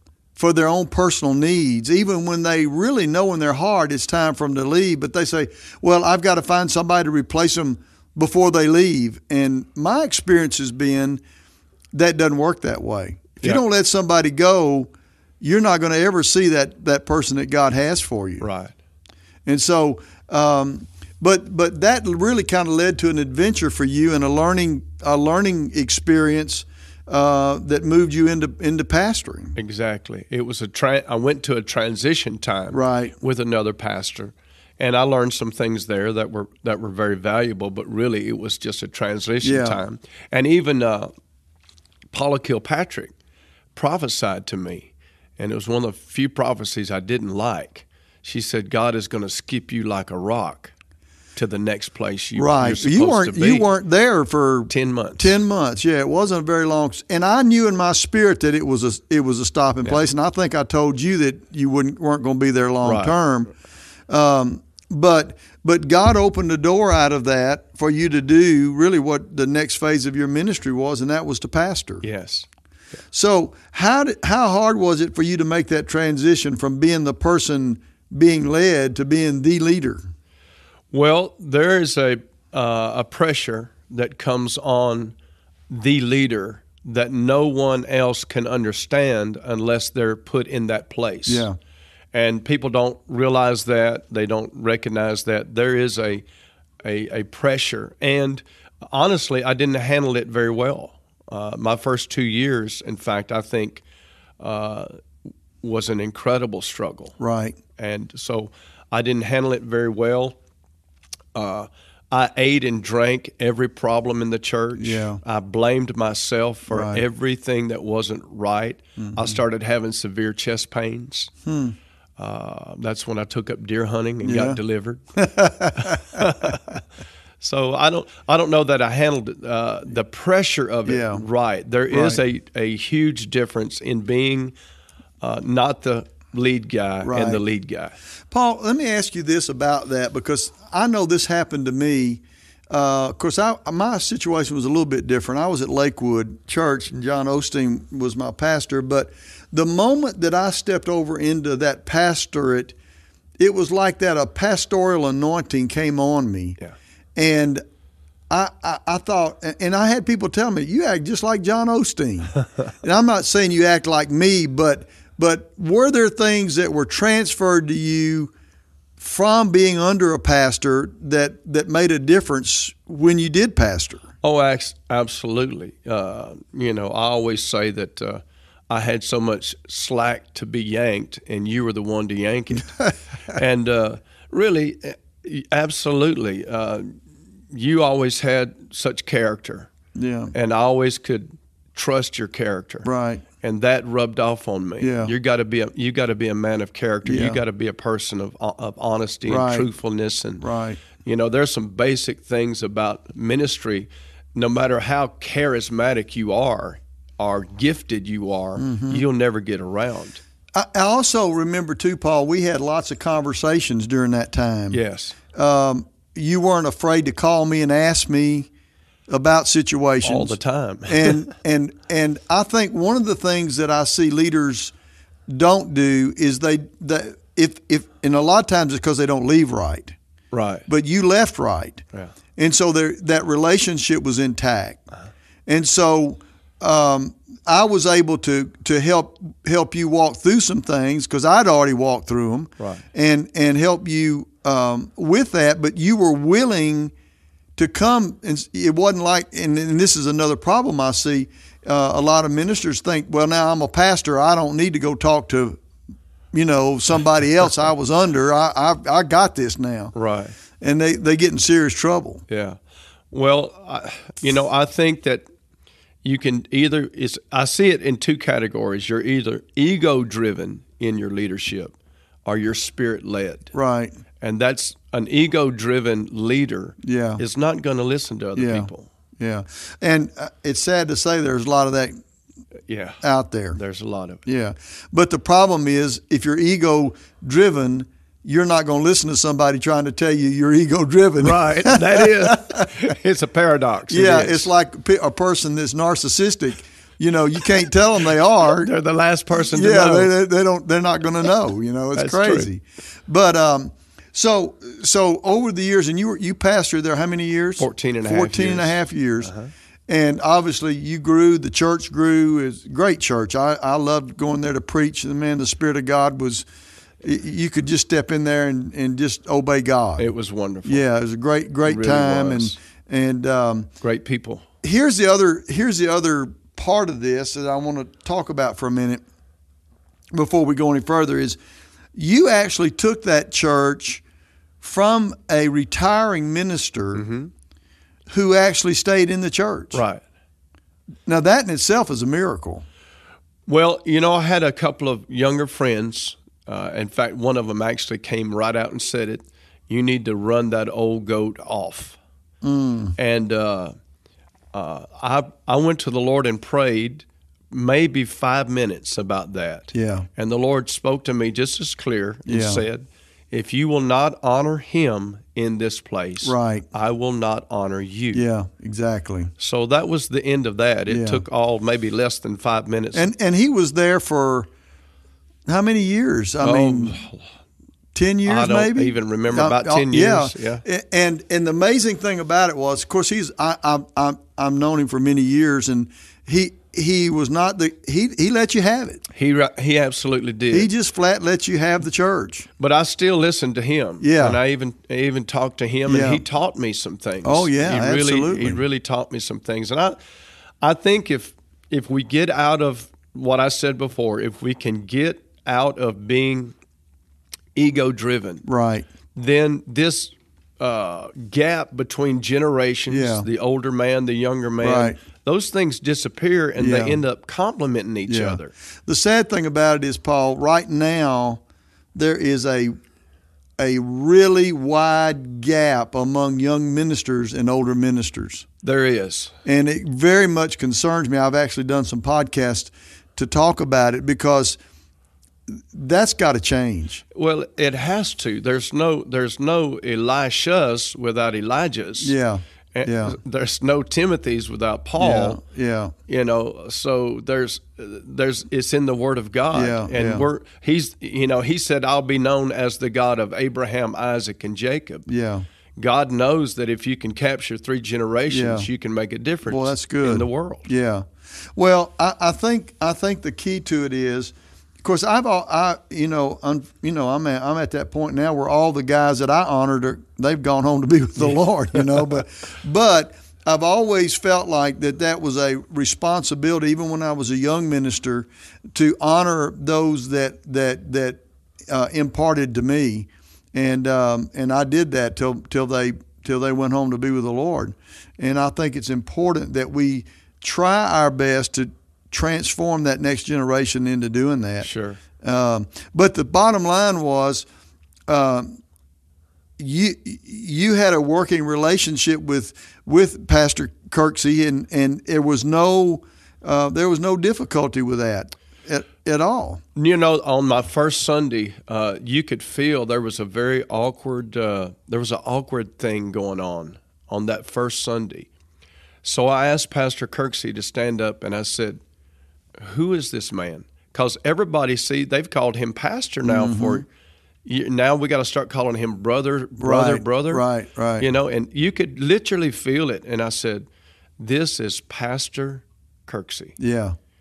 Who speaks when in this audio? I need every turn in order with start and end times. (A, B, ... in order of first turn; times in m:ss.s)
0:00.4-0:11.2 A
0:11.9-0:14.9 A
0:15.4-0:18.4 A
0:18.4-0:18.7 B
0:19.4-0:29.6 A
0:29.6-0:41.1 B
0:32.7-0:33.2 A
0:39.4-0:39.8 A
0:42.1-0:43.1 B
0:43.7-0:50.7 B
0:51.3-0:53.7 B
0:52.4-1:03.5 A
0:54.7-0:55.4 B
1:02.8-1:03.2 B
1:04.1-1:12.0 A
1:12.0-1:12.4 B
1:13.1-1:20.0 A
1:20.9-1:25.1 B
1:25.7-1:31.5 B
1:31.2-1:31.6 A
1:32.1-1:36.2 B
1:36.8-1:43.8 B
1:44.4-1:44.9 B
1:45.6-1:47.1 B
1:47.2-1:47.6 A
1:47.8-1:50.4 B
1:51.3-2:01.3 B
1:54.8-1:55.2 A
1:56.7-1:57.0 A
1:59.0-1:59.4 A
2:01.4-2:01.8 A
2:02.2-2:05.0 B
2:04.2-2:04.6 A
2:05.2-2:06.2 A
2:05.8-2:06.8 B
2:07.4-2:14.5 B
2:10.8-2:11.2 A
2:11.9-2:12.2 A
2:15.2-2:17.9 B
2:17.0-2:17.4 A
2:18.3-2:32.8 A
2:33.4-2:36.6 A
2:37.2-2:37.6 A
2:38.3-2:48.3 A
2:49.0-2:54.0 A
2:54.2-3:02.7 B
3:03.3-3:07.0 B
3:07.5-3:09.7 B
3:09.9-3:10.3 A
3:10.3-3:12.9 B
3:12.8-3:13.2 A
3:13.4-3:20.4 B
3:14.8-3:15.1 A
3:17.0-3:17.4 A
3:19.2-3:19.7 A
3:20.4-3:20.8 A
3:21.0-3:30.2 B
3:28.6-3:29.0 A
3:30.5-3:34.8 A
3:34.7-3:35.2 B
3:35.3-3:38.5 A
3:39.1-3:44.7 A
3:40.0-3:41.2 B
3:45.3-3:49.9 A
3:50.3-3:50.6 B
3:50.7-3:51.8 A
3:52.4-3:54.8 A
3:55.5-4:06.9 A
4:02.6-4:02.8 B
4:07.6-4:15.6 A
4:16.3-4:19.9 A
4:19.9-4:20.3 B
4:20.6-4:22.2 A
4:22.3-4:22.6 B
4:23.1-4:25.2 B
4:26.0-4:31.7 B
4:32.2-4:33.5 B
4:33.5-4:33.9 A
4:34.2-4:38.9 B
4:36.8-4:37.2 A
4:38.4-4:41.9 A
4:42.7-4:44.2 B
4:43.0-4:43.6 A
4:44.2-4:52.4 A
4:51.2-4:54.5 B
4:53.9-4:58.7 A
4:58.6-5:00.1 B
4:59.3-5:09.3 A
5:01.9-5:02.5 B
5:07.6-5:09.5 B
5:09.9-5:16.4 A
5:17.0-5:20.1 A
5:20.0-5:20.8 B
5:20.6-5:23.7 A
5:21.6-5:22.6 B
5:23.8-5:24.4 B
5:24.6-5:29.0 A
5:30.1-5:31.4 A
5:31.9-5:34.0 A
5:34.6-5:37.0 A
5:36.9-5:37.3 B
5:38.1-5:39.8 A
5:39.7-5:40.0 B
5:41.0-5:42.6 A
5:43.5-5:52.0 B
5:52.4-5:53.0 A
5:53.0-5:53.7 B
5:54.5-6:08.3 B
5:59.7-6:00.1 A
6:02.2-6:02.6 A
6:06.2-6:06.7 A
6:08.1-6:09.3 A
6:09.4-6:13.1 B
6:10.9-6:11.2 A
6:12.9-6:14.5 A
6:15.5-6:17.0 A
6:16.4-6:17.2 B
6:17.9-6:29.0 A
6:18.2-6:20.6 B
6:29.1-6:30.7 B
6:30.5-6:32.5 A
6:32.6-6:40.0 B
6:34.0-6:34.4 A
6:35.9-6:36.2 A
6:37.2-6:38.6 A
6:40.6-6:46.5 B
6:47.5-6:48.4 B
6:48.4-6:48.8 A
6:49.1-6:58.5 B
6:52.9-6:53.3 A
6:54.6-6:55.0 A
6:56.6-6:57.0 A
6:58.1-7:01.4 A
7:01.9-7:02.7 A
7:03.6-7:08.4 A
7:08.6-7:09.3 B
7:09.4-7:14.6 A
7:15.7-7:17.0 A
7:17.1-7:22.2 B
7:22.0-7:23.2 A
7:22.7-7:25.4 B
7:25.0-7:25.9 A
7:26.1-7:35.1 B
7:29.5-7:30.3 A
7:35.1-7:35.4 A
7:35.8-7:40.7 B
7:38.3-7:38.7 A
7:39.4-8:14.7 A
8:14.6-8:15.0 B
8:15.2-8:17.5 A
8:18.1-8:18.6 A
8:19.6-8:29.6 A
8:29.7-8:38.3 B
8:39.0-8:41.8 B
8:42.6-8:46.9 B
8:46.2-8:46.8 A
8:47.4-8:50.4 B
8:49.6-8:51.1 A
8:51.0-8:53.7 B
8:54.2-8:56.6 B
8:56.6-8:57.0 A